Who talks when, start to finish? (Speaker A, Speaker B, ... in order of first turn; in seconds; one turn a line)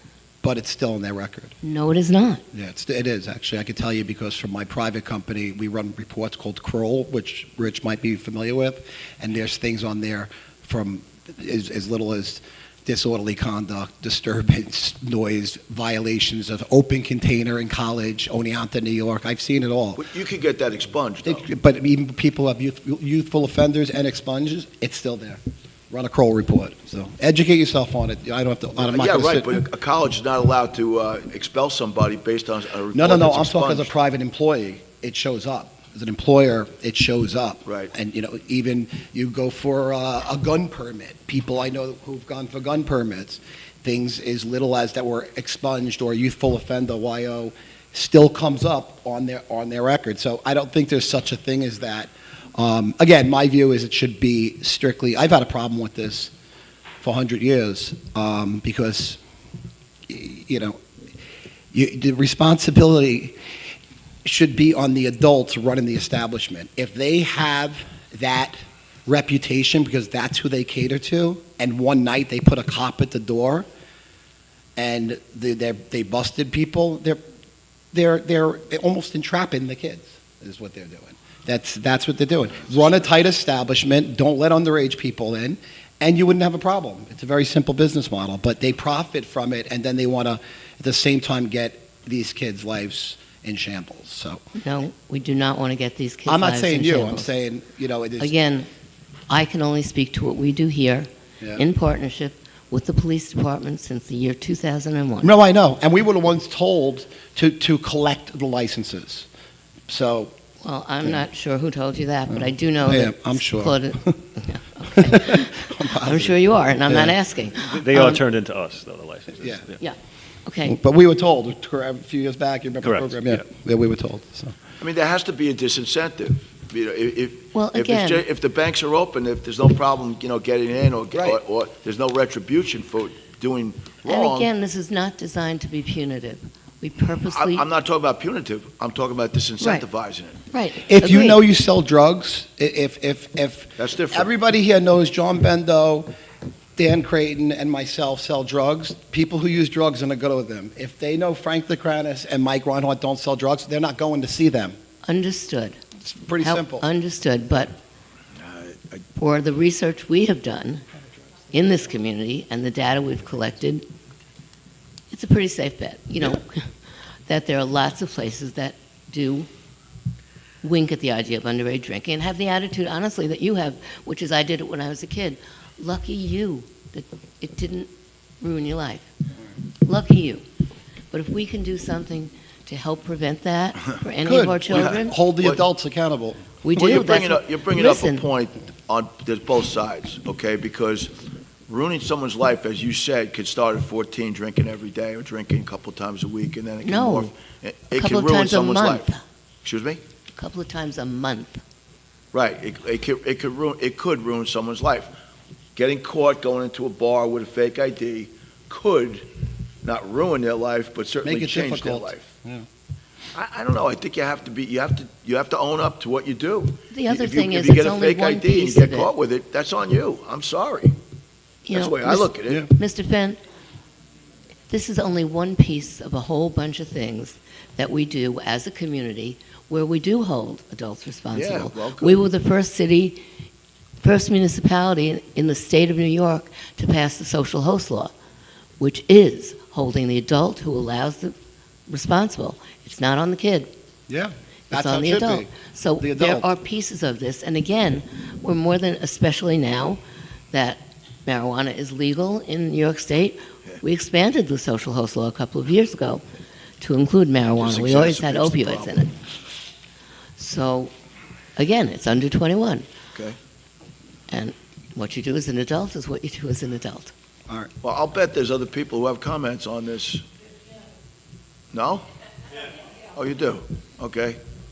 Speaker A: 0.4-1.5
Speaker B: 1.6-2.4
Speaker A: 2.5-20.0
Speaker C: 19.9-21.4
Speaker A: 21.2-25.4
Speaker A: 25.9-29.6
Speaker C: 28.8-33.9
Speaker A: 32.9-56.3
Speaker C: 37.6-37.9
Speaker A: 57.0-59.2
Speaker A: 60.1-60.8
Speaker A: 61.7-63.4
Speaker A: 64.2-73.7
Speaker A: 74.8-77.2
Speaker A: 77.9-94.4
Speaker B: 94.5-97.3
Speaker A: 96.2-98.3
Speaker B: 98.2-98.7
Speaker B: 99.3-105.3
Speaker A: 105.2-109.3
Speaker A: 109.9-110.3
Speaker B: 110.6-118.2
Speaker A: 112.3-114.2
Speaker A: 114.9-116.4
Speaker A: 116.9-117.1
Speaker D: 117.7-119.8
Speaker A: 119.4-119.7
Speaker B: 119.8-120.8
Speaker A: 120.6-124.5
Speaker D: 122.8-123.4
Speaker C: 124.8-134.5
Speaker B: 127.5-128.2
Speaker B: 134.1-137.6
Speaker C: 137.3-140.4
Speaker B: 140.5-141.4
Speaker A: 140.8-146.1
Speaker C: 143.8-144.3
Speaker A: 146.8-154.8
Speaker B: 155.1-155.8
Speaker A: 156.0-156.8
Speaker B: 156.4-157.8
Speaker C: 158.3-159.0
Speaker B: 159.2-160.8
Speaker B: 161.5-163.9
Speaker B: 165.1-166.7
Speaker B: 167.3-169.5
Speaker B: 170.6-177.9
Speaker B: 178.4-179.1
Speaker B: 179.8-180.4
Speaker B: 181.1-185.1
Speaker A: 184.2-186.4
Speaker B: 186.6-188.2
Speaker C: 186.7-191.1
Speaker C: 191.7-199.1
Speaker B: 196.8-197.3
Speaker B: 197.9-199.2
Speaker C: 199.6-200.0
Speaker B: 200.3-201.6
Speaker C: 202.3-205.1
Speaker C: 205.8-209.3
Speaker C: 209.8-212.3
Speaker A: 211.2-212.7
Speaker C: 213.3-220.9
Speaker B: 216.9-219.1
Speaker B: 221.7-223.4
Speaker C: 221.7-222.7
Speaker B: 224.7-233.2
Speaker C: 231.3-232.2
Speaker B: 234.0-238.1
Speaker B: 238.8-241.3
Speaker B: 241.9-243.7
Speaker A: 244.1-246.5
Speaker B: 244.7-250.0
Speaker B: 250.5-256.2
Speaker B: 256.8-259.1
Speaker C: 257.6-259.1
Speaker B: 260.4-260.9
Speaker B: 261.6-262.9
Speaker B: 264.3-267.1
Speaker C: 267.8-270.2
Speaker C: 271.7-272.1
Speaker C: 273.1-274.4